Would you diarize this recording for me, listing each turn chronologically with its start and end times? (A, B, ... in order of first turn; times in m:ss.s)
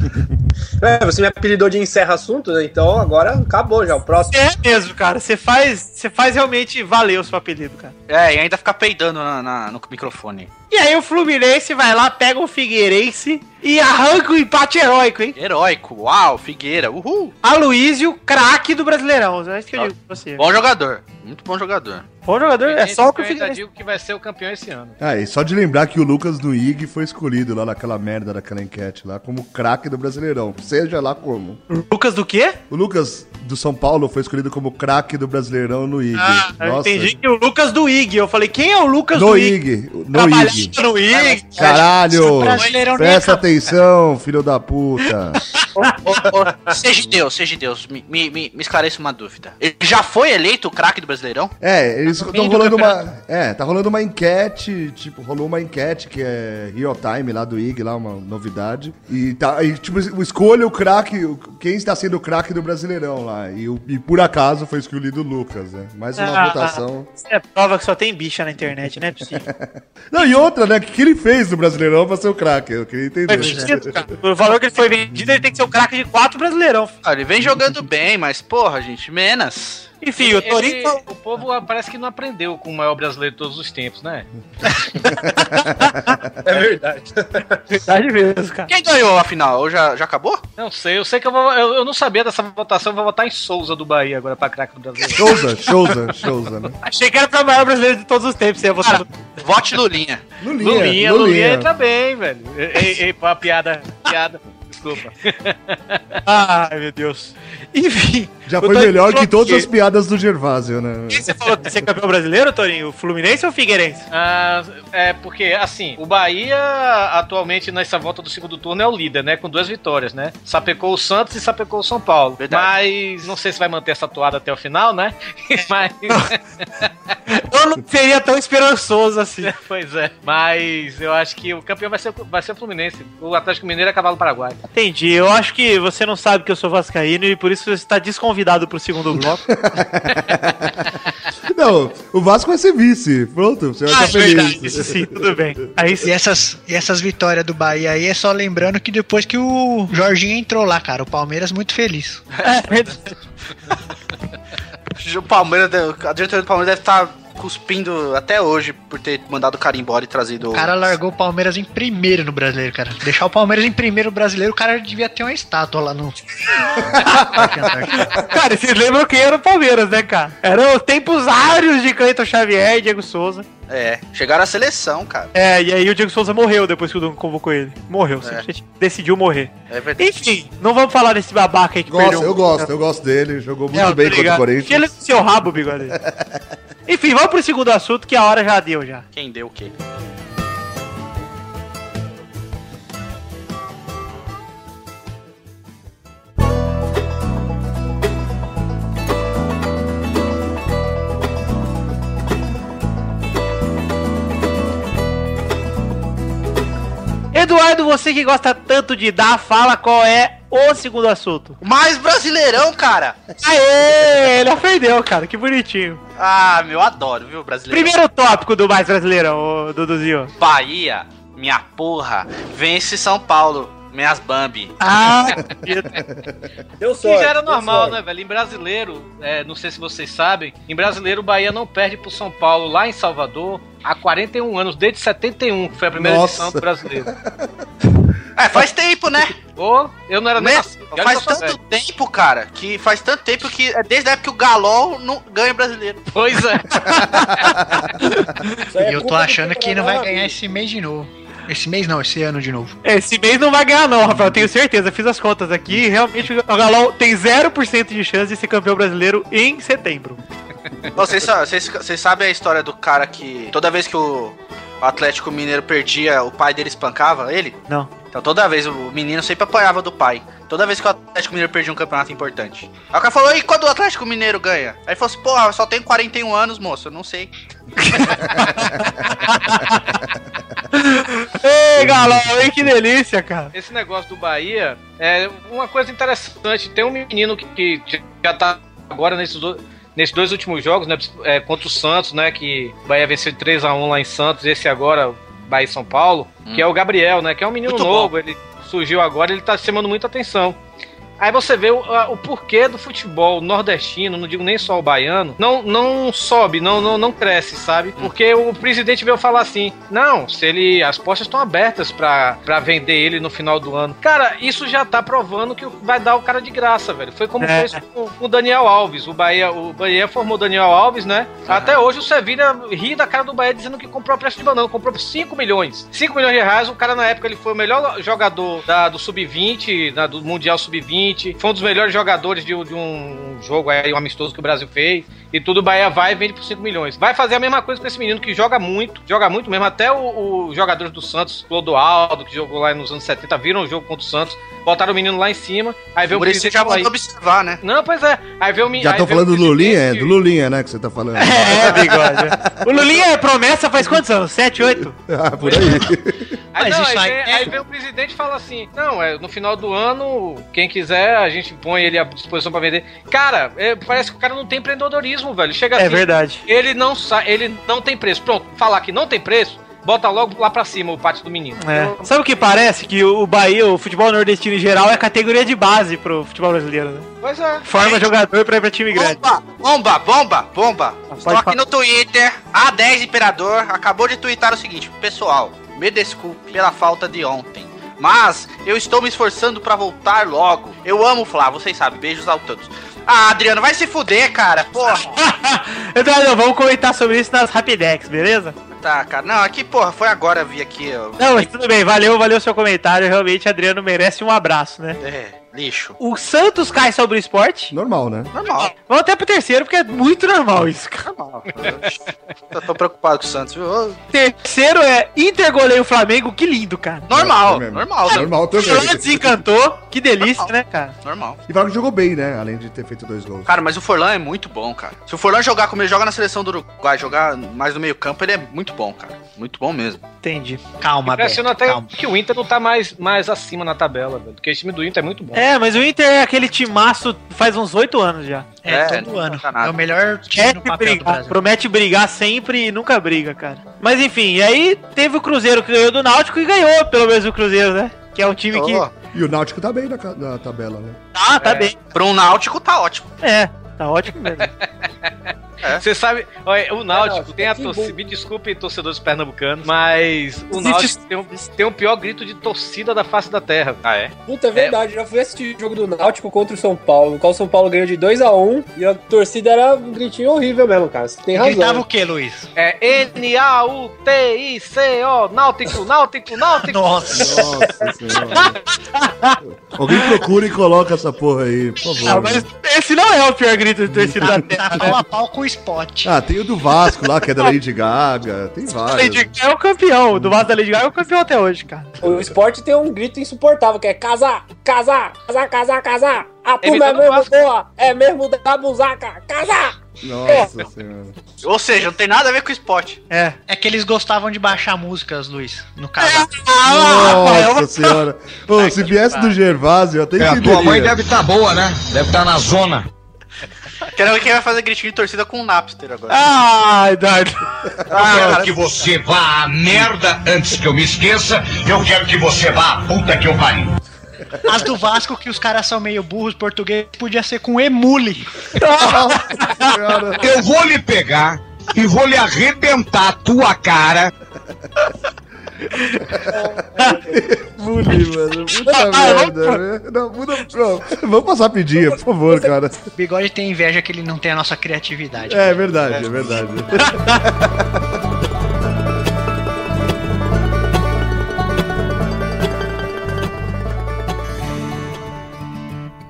0:00.8-0:04.3 A
0:04.3-0:07.9 B
0:08.1-0:10.5 C
0:10.7-0:15.4 B
0:15.4-0:17.3 C
0:17.4-0:20.4 B
0:19.8-0:22.0 C
0:22.2-0:23.6 B
0:22.6-0:25.0 D
0:25.0-0:31.6 E
0:31.7-0:32.6 B
0:32.7-0:37.2 E
0:36.2-0:39.6 B
0:39.1-0:40.8 E
0:40.1-0:41.8 B
0:41.4-0:43.4 F
0:41.6-0:45.4 E
0:46.0-0:51.5 C
0:51.6-1:07.1 E
1:06.2-1:09.4 B
1:09.3-1:14.0 E
1:13.3-1:16.9 B
1:13.3-1:13.7 F
1:17.0-1:19.9 C
1:20.0-1:21.0 B
1:20.2-1:24.3 D
1:25.0-1:26.1 B
1:25.0-1:26.4 E
1:26.4-1:27.6 A
1:27.7-1:28.7 B
1:28.7-1:30.4 C
1:30.6-1:35.4 D
1:35.1-1:36.7 E
1:36.8-1:39.1 B
1:38.8-1:40.2 C
1:40.4-1:41.7 E
1:40.6-1:46.0 D
1:46.2-1:49.7 B
1:48.4-1:51.3 E
1:51.1-1:54.1 B
1:54.1-2:06.9 D
2:02.4-2:02.7 C
2:07.3-2:09.5 B
2:09.4-2:14.6 D
2:14.7-2:19.4 B
2:19.5-2:20.8 E
2:21.4-2:25.9 E
2:23.9-2:26.1 B
2:26.0-2:32.2 F
2:32.4-2:33.1 B
2:35.0-2:40.9 C
2:40.5-2:48.1 F
2:47.0-2:47.5 E
2:48.0-2:53.4 B
2:53.7-2:55.3 C
2:55.3-3:02.7 B
2:59.7-3:00.1 C
3:01.9-3:04.9 E
3:03.7-3:06.0 B
3:05.9-3:06.4 E
3:06.9-3:09.0 B
3:09.1-3:09.7 C
3:27.3-3:31.6 B
3:31.6-3:33.2 C
3:33.4-3:36.0 B
3:36.2-3:37.9 C
3:37.7-3:40.3 B
3:40.4-3:44.7 C
3:44.8-3:45.9 B
3:45.4-3:46.4 E
3:46.8-3:48.0 A
3:47.0-3:57.1 D
3:55.9-3:57.5 E
3:58.4-3:59.4 C
3:59.6-4:01.6 D
4:00.4-4:06.1 C
4:06.1-4:07.0 D
4:06.8-4:08.6 B
4:08.7-4:10.4 A
4:08.8-4:12.8 F
4:12.8-4:20.2 B
4:20.9-4:27.6 C
4:28.1-4:37.3 C
4:37.8-4:39.9 B
4:40.7-4:43.5 B
4:41.8-4:42.6 E
4:43.5-5:00.6 D
4:57.6-4:58.1 C
5:01.2-5:46.9 D
5:17.4-5:17.8 B
5:21.4-5:21.8 C
5:46.1-5:47.6 C
5:47.6-5:50.1 D
5:48.8-5:52.3 E
5:51.2-5:55.0 B
5:54.8-5:56.3 E
5:55.4-5:55.8 D
5:56.5-6:12.1 D
5:56.6-5:57.6 F
6:05.8-6:06.4 B
6:11.6-6:17.1 B
6:17.2-6:17.6 D
6:17.6-6:19.2 B
6:17.7-6:18.1 C
6:18.9-6:35.2 C
6:21.1-6:21.6 B
6:35.0-6:38.5 B
6:38.7-6:41.5 C
6:41.2-6:45.0 B
6:45.0-6:46.0 C
6:46.0-6:47.7 B
6:47.7-6:48.3 E
6:48.3-6:48.7 C
6:48.6-6:51.1 B
6:51.1-6:52.0 C
6:52.5-6:54.0 C
6:54.1-6:57.1 B
6:57.1-6:58.3 C
6:57.1-6:59.3 E
6:58.1-7:00.9 B
7:00.2-7:00.5 C
7:01.0-7:01.4 C
7:01.5-7:03.5 E
7:03.5-7:10.0 C
7:10.2-7:10.6 B
7:10.8-7:11.9 F
7:11.0-7:15.4 D
7:15.3-7:18.5 B
7:18.6-7:21.4 F
7:18.7-7:19.8 C
7:20.3-7:28.8 B
7:28.5-7:28.9 C
7:29.1-7:31.0 E
7:31.1-7:31.7 B
7:31.4-7:31.7 D
7:31.9-7:33.1 C
7:33.2-7:34.5 B
7:35.7-7:43.8 D
7:36.9-7:38.0 A
7:40.5-7:41.4 B
7:43.8-7:44.1 C
7:44.2-7:51.8 A
7:51.3-7:52.5 F
7:52.6-7:57.2 D
7:56.6-7:57.6 F
7:57.1-7:58.6 E
7:58.9-7:59.4 B
7:59.4-8:02.5 E
8:02.0-8:05.0 B
8:03.9-8:04.9 E
8:04.2-8:06.2 F
8:06.0-8:09.3 E
8:08.9-8:11.9 B
8:10.1-8:10.4 E
8:12.0-8:19.8 A
8:16.6-8:17.3 D
8:20.0-8:21.2 E
8:21.4-8:23.0 C
8:23.1-8:23.4 B
8:23.5-8:26.3 F
8:26.0-8:28.0 B
8:26.6-8:31.0 E
8:30.2-8:32.9 G
8:33.9-8:36.2 C
8:36.1-8:37.4 B
8:37.8-8:38.2 E
8:37.9-8:38.6 C
8:38.0-8:43.7 G
8:44.4-8:48.3 F
8:48.6-8:49.8 B
8:48.8-8:50.3 E
8:50.2-8:54.1 G
8:55.7-8:56.0 B
8:56.1-9:02.8 E
8:56.3-8:57.1 A
8:58.6-8:59.6 B
9:02.9-9:05.7 F
9:05.3-9:07.9 E
9:06.8-9:07.2 B